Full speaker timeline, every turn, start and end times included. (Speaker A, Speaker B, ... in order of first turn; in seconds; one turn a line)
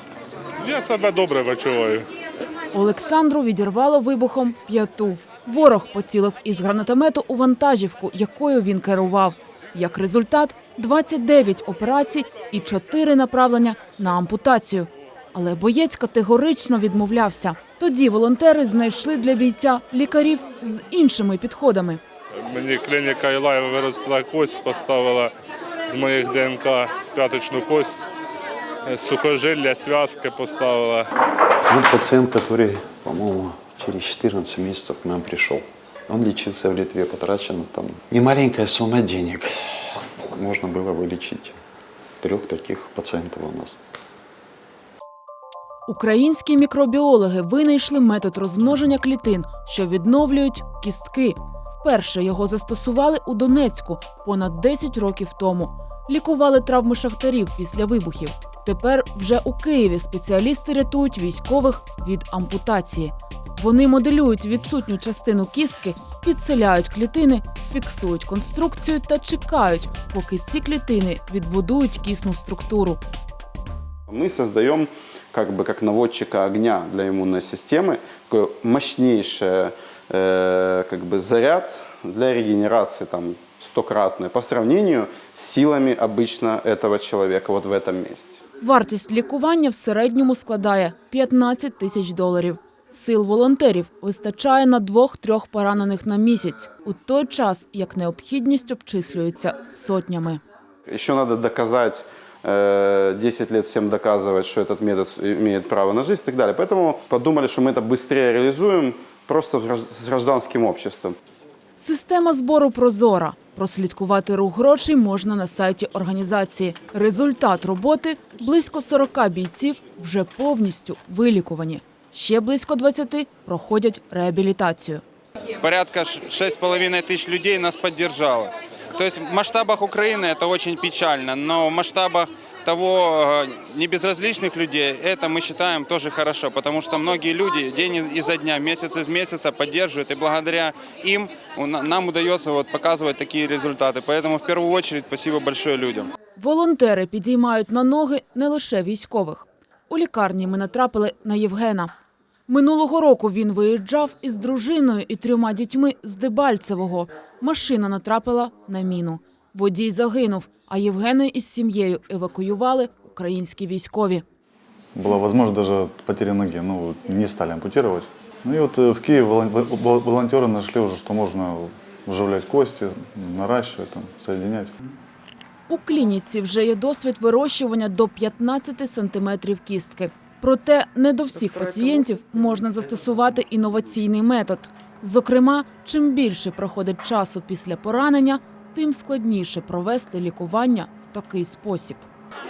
Speaker A: 0.6-2.1
Speaker B: 2.7-22.0
Speaker A: 22.4-25.3
Speaker A: 25.9-28.0
Speaker A: 28.8-31.1
Speaker C: 31.7-41.5
Speaker C: 42.2-43.8
Speaker B: 45.9-73.0
Speaker D: 74.1-88.4
Speaker B: 88.6-100.4
Speaker D: 100.9-111.2
Speaker B: 111.8-125.0
Speaker E: 125.6-146.1
Speaker B: 146.3-151.9
Speaker B: 152.5-164.2
Speaker F: 164.9-174.7
Speaker B: 175.7-192.0